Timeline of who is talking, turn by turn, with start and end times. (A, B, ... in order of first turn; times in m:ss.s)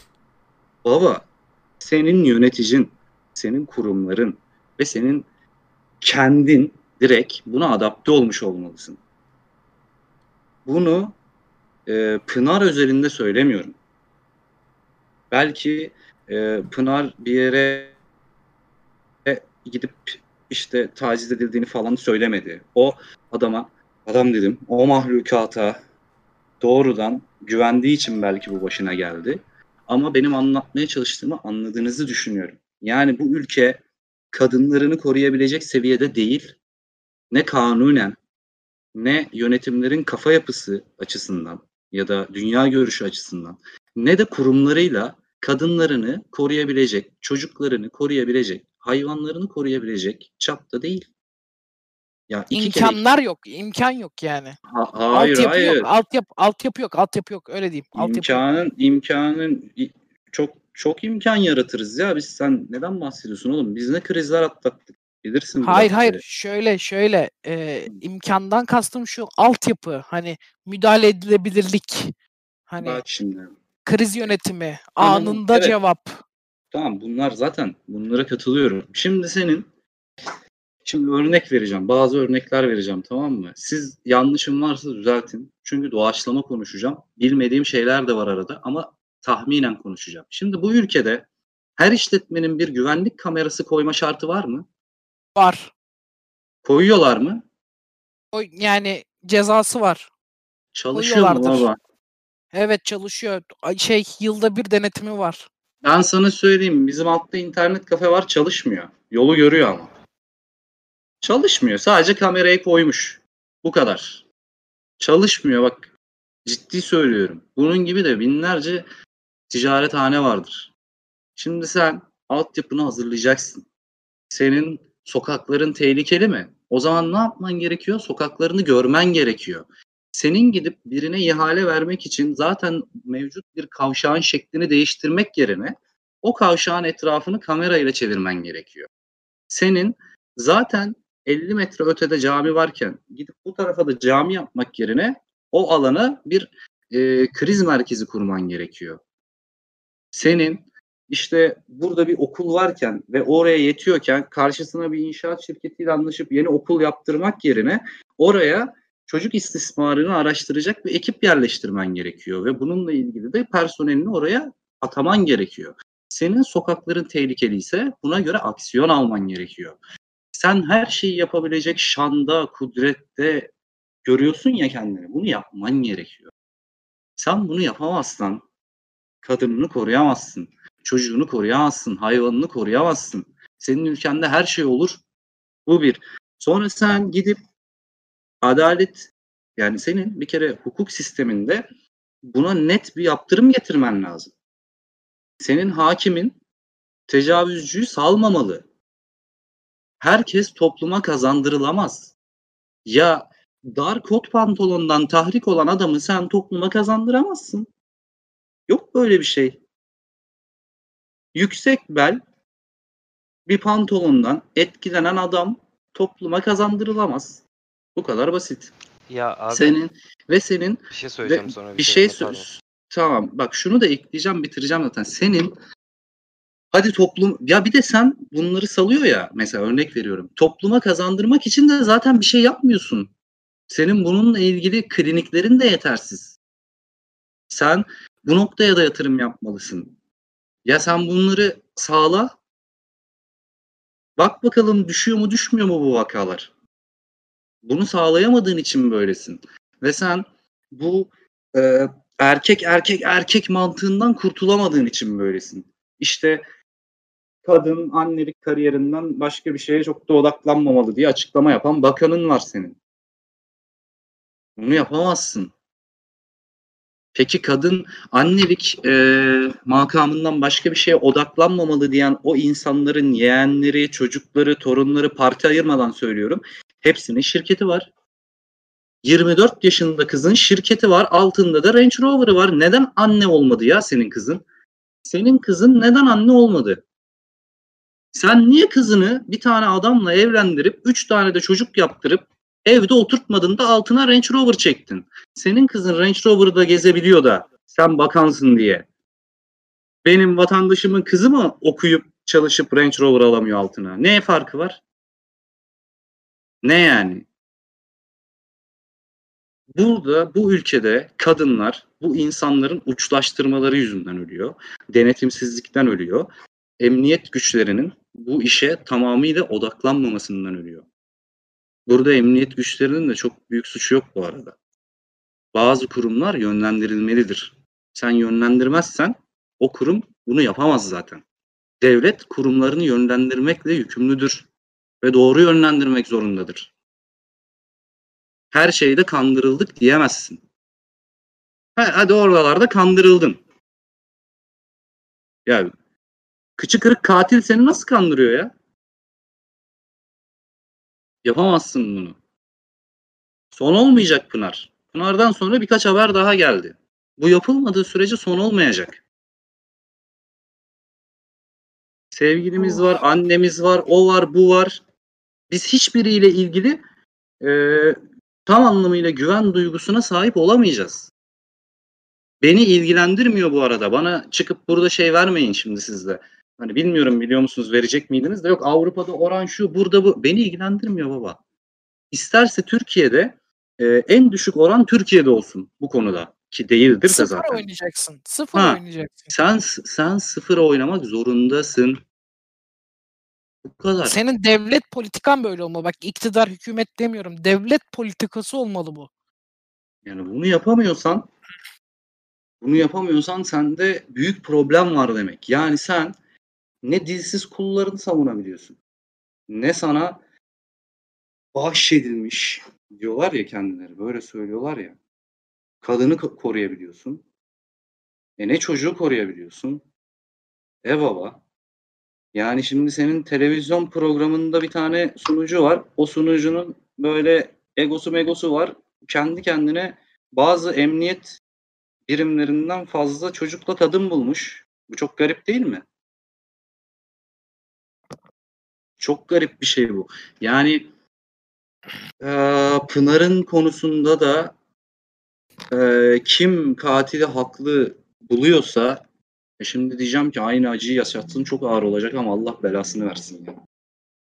0:00.8-0:01.2 A
0:01.8-0:05.3 A
0:06.0-0:09.0 A
0:10.7-0:11.2 A
0:11.9-0:13.8 A
0:15.3-0:18.0 A
0:19.2-0:25.8 A
0:26.6-0:33.8 A
0:34.3-0:36.6 A
0:37.3-0:38.2 A
0:39.0-0:51.1 A
0:52.3-0:53.0 A
0:52.5-0:54.6 B
0:54.7-0:55.9 A
0:55.1-0:58.4 B
0:58.0-1:06.2 A
1:05.6-1:12.1 B
1:12.7-1:13.0 B
1:12.8-1:13.6 A
1:13.8-1:16.2 B
1:15.0-1:15.8 A
1:16.7-1:19.7 A
1:20.8-1:31.3 A
1:31.8-1:34.7 A
1:35.4-1:35.7 B
1:36.6-1:37.4 A
1:38.3-1:40.1 B
1:40.7-1:41.8 A
1:40.9-1:41.7 B
1:42.5-1:45.5 B
1:45.8-1:49.9 A
1:51.2-1:54.2 A
1:55.0-1:55.9 A
1:56.4-1:58.9 A
1:59.5-2:00.7 A
2:01.4-2:03.7 A
2:04.3-2:18.9 A
2:19.5-2:29.0 A
2:30.1-2:49.8 A
2:50.3-2:53.5 A
2:54.0-2:56.3 A
2:57.2-2:58.4 A
2:59.2-3:05.0 A
3:05.7-3:07.4 A
3:08.4-3:11.6 A
3:12.3-3:14.3 A
3:15.4-3:16.4 A
3:17.1-3:18.6 A
3:20.0-3:22.1 A
3:22.9-3:27.7 A
3:28.7-3:29.6 A
3:31.3-3:32.2 A
3:33.5-3:37.4 A
3:38.0-3:38.7 A
3:39.1-3:39.8 C
3:39.5-3:45.6 A
3:40.9-3:42.5 C
3:46.7-3:53.1 A
3:53.7-3:56.4 A
3:57.5-4:00.0 A
4:00.6-4:02.3 A
4:04.2-4:06.5 A
4:07.6-4:16.4 A
4:17.4-4:22.8 A
4:24.6-4:25.5 A
4:27.2-4:37.9 A
4:39.0-4:44.4 A
4:45.0-4:46.8 A
4:48.1-4:58.8 A
5:00.0-5:04.8 A
5:06.6-5:07.3 A
5:09.8-5:20.8 A
5:21.9-5:24.6 A
5:25.5-5:31.2 A
5:31.8-5:34.5 A
5:35.0-5:36.7 A
5:38.5-5:40.4 A
5:41.8-5:43.4 A
5:45.5-5:45.7 A
5:46.6-5:48.5 A
5:51.2-5:52.2 A
5:53.5-5:59.0 A
6:02.1-6:04.8 A
6:05.5-6:06.8 A
6:07.4-6:11.1 A
6:12.4-6:21.4 A
6:22.1-6:27.6 A
6:27.0-6:29.3 B
6:28.6-6:32.0 A
6:33.6-6:34.2 A
6:34.0-6:39.1 B
6:40.0-6:41.3 A
6:42.6-6:46.2 A
6:46.8-6:48.8 A
6:49.5-6:50.2 A
6:51.5-6:55.0 A
6:55.8-6:57.2 A
6:58.4-6:59.8 A
7:00.8-7:01.4 A
7:02.3-7:11.4 A
7:12.1-7:15.8 A
7:19.0-7:20.9 A
7:22.2-7:24.5 A
7:25.7-7:29.0 A
7:29.6-7:33.6 A